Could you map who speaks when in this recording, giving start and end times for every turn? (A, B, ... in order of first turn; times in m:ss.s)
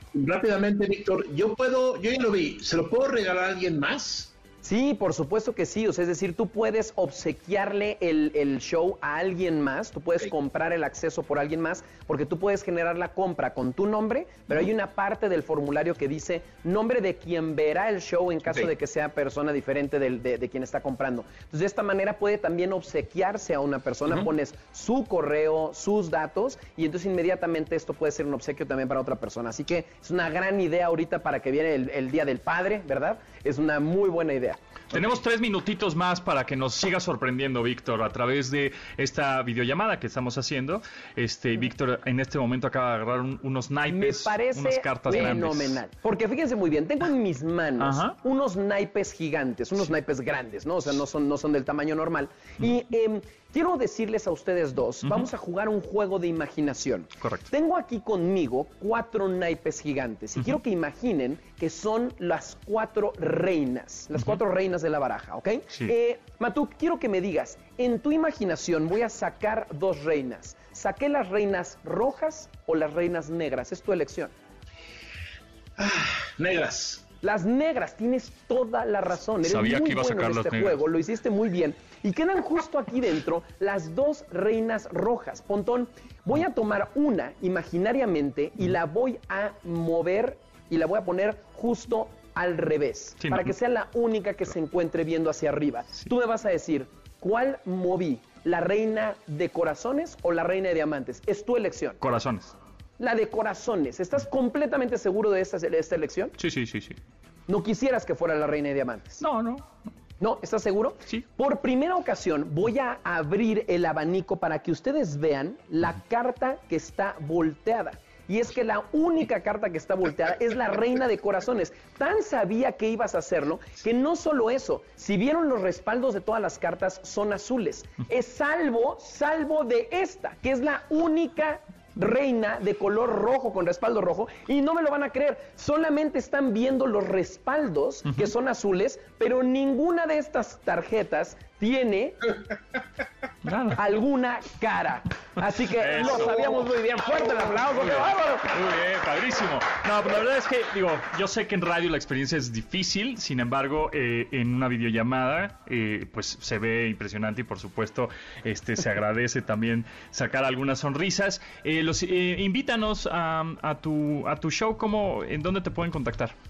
0:00.1-0:04.3 A
0:04.6-0:35.1 B
0:34.9-0:45.8 C
0:43.9-1:14.3 B
0:47.8-0:48.2 C
0:57.2-0:57.5 C
1:15.8-1:17.1 A
1:17.2-1:42.0 B
1:19.4-1:20.8 C
1:33.2-1:33.5 C
1:42.0-1:42.5 C
1:43.0-1:46.3 B
1:46.4-1:47.0 C
1:47.5-1:49.2 B
1:49.2-1:49.7 C
1:50.2-2:22.2 B
2:23.4-2:23.8 C
2:23.8-2:28.5 B
2:25.7-2:26.4 C
2:27.6-2:46.3 C